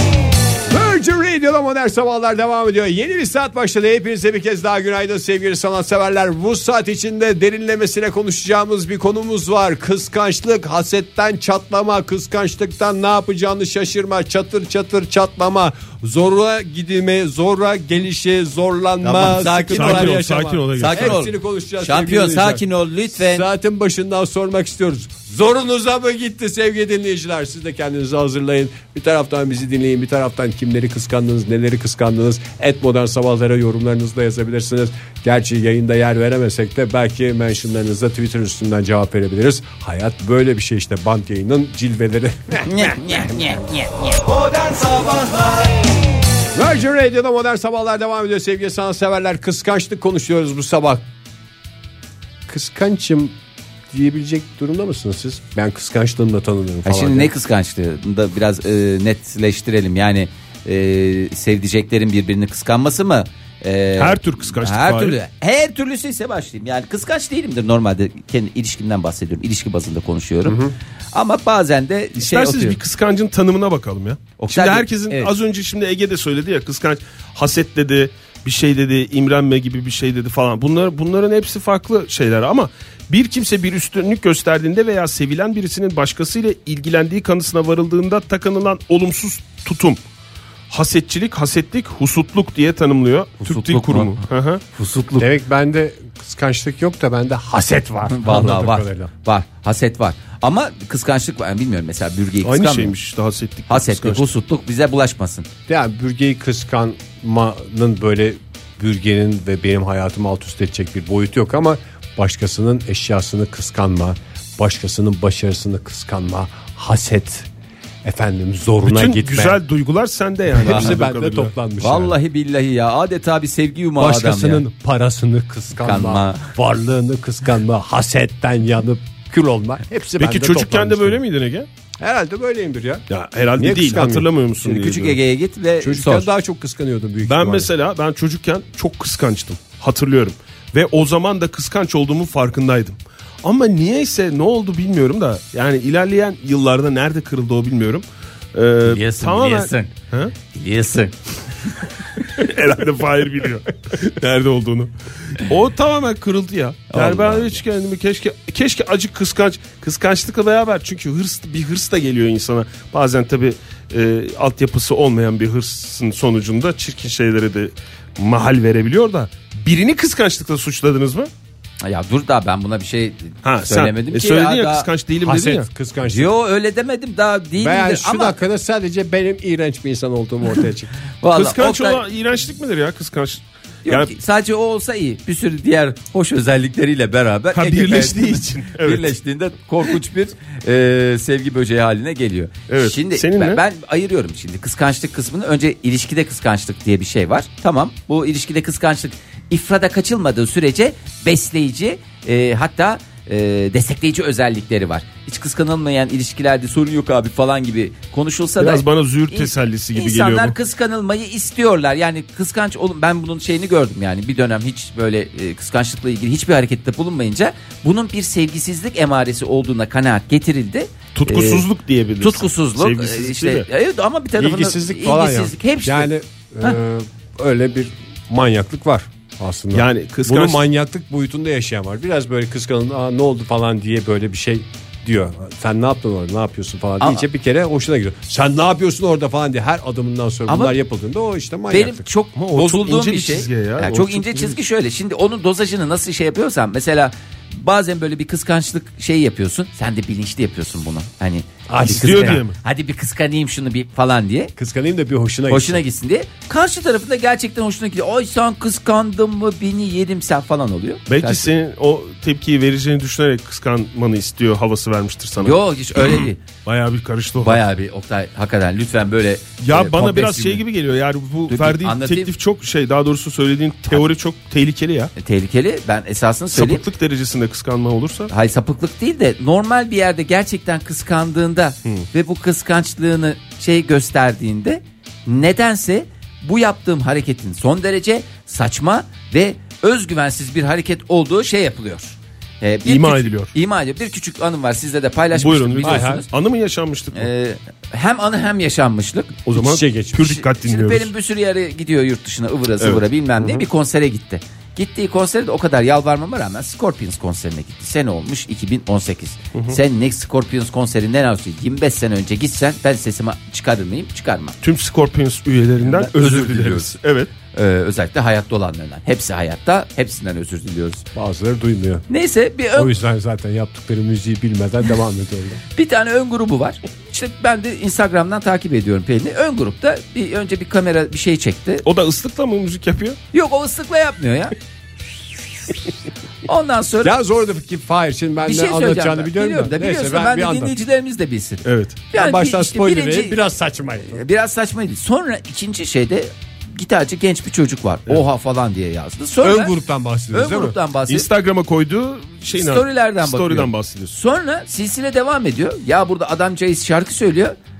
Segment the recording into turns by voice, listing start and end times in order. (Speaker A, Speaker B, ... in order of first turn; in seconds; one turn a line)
Speaker A: 0.7-43.7
Speaker B: 19.0-20.2
Speaker C: 19.7-21.2
Speaker B: 20.8-23.5
Speaker B: 42.6-44.2
Speaker A: 46.5-51.1
Speaker A: 52.5-53.4
Speaker A: 53.9-57.3
Speaker B: 56.9-72.8
Speaker C: 64.0-65.2
Speaker A: 70.5-70.7
Speaker C: 72.2-90.0
Speaker B: 74.4-75.3
Speaker C: 90.7-94.6
Speaker B: 93.4-95.3
Speaker A: 95.2-99.1
Speaker B: 98.1-102.9
Speaker C: 102.4-104.2
Speaker B: 103.7-105.5
Speaker A: 105.7-117.5
Speaker A: 118.0-119.6
Speaker C: 118.8-121.5
Speaker A: 120.5-122.2
Speaker B: 120.6-121.0
Speaker B: 121.8-124.6
Speaker A: 124.0-131.2
Speaker B: 125.8-126.5
Speaker C: 130.2-131.7
Speaker A: 132.0-133.1
Speaker C: 133.1-135.2
Speaker A: 133.6-134.3
Speaker B: 134.6-136.3
Speaker A: 135.8-137.7
Speaker C: 137.2-150.3
Speaker B: 148.8-149.9
Speaker B: 150.5-152.2
Speaker C: 152.2-171.3
Speaker B: 156.9-157.6
Speaker B: 171.8-174.9
Speaker C: 173.4-175.7
Speaker A: 175.2-176.3
Speaker B: 176.1-178.4
Speaker A: 177.6-180.9
Speaker B: 181.2-182.1
Speaker C: 181.3-184.1
Speaker B: 183.9-221.7
Speaker C: 187.5-189.1
Speaker C: 192.7-193.6
Speaker C: 208.6-210.6
Speaker C: 221.2-223.7
Speaker B: 222.2-226.1
Speaker A: 224.4-242.1
Speaker C: 229.7-230.6
Speaker B: 237.0-237.2
Speaker B: 240.5-240.8
Speaker B: 241.7-254.5
Speaker C: 242.4-244.6
Speaker A: 251.7-252.4
Speaker C: 251.9-252.6
Speaker A: 254.6-255.8
Speaker B: 255.5-261.5
Speaker C: 261.1-267.6
Speaker B: 265.4-266.4
Speaker B: 267.4-270.6
Speaker C: 269.6-275.1
Speaker B: 271.5-272.3
Speaker B: 275.2-276.8
Speaker C: 276.5-278.3
Speaker B: 278.3-296.3
Speaker C: 292.9-293.5
Speaker C: 295.4-297.3
Speaker A: 295.8-296.2
Speaker B: 297.1-299.4
Speaker C: 299.5-301.1
Speaker A: 299.6-300.3
Speaker B: 300.2-314.6
Speaker A: 303.4-303.7
Speaker C: 314.6-317.3
Speaker B: 315.8-316.9
Speaker B: 317.5-321.1
Speaker A: 321.1-322.1
Speaker B: 322.1-322.9
Speaker A: 322.8-325.6
Speaker B: 325.8-331.9
Speaker C: 331.8-333.2
Speaker B: 333.3-334.5
Speaker B: 336.4-337.2
Speaker A: 337.0-340.8
Speaker B: 338.4-343.4
Speaker C: 341.6-342.0
Speaker A: 342.1-344.2
Speaker B: 344.0-349.7
Speaker A: 349.4-350.8
Speaker B: 350.3-351.3
Speaker C: 351.1-354.1
Speaker B: 352.5-357.6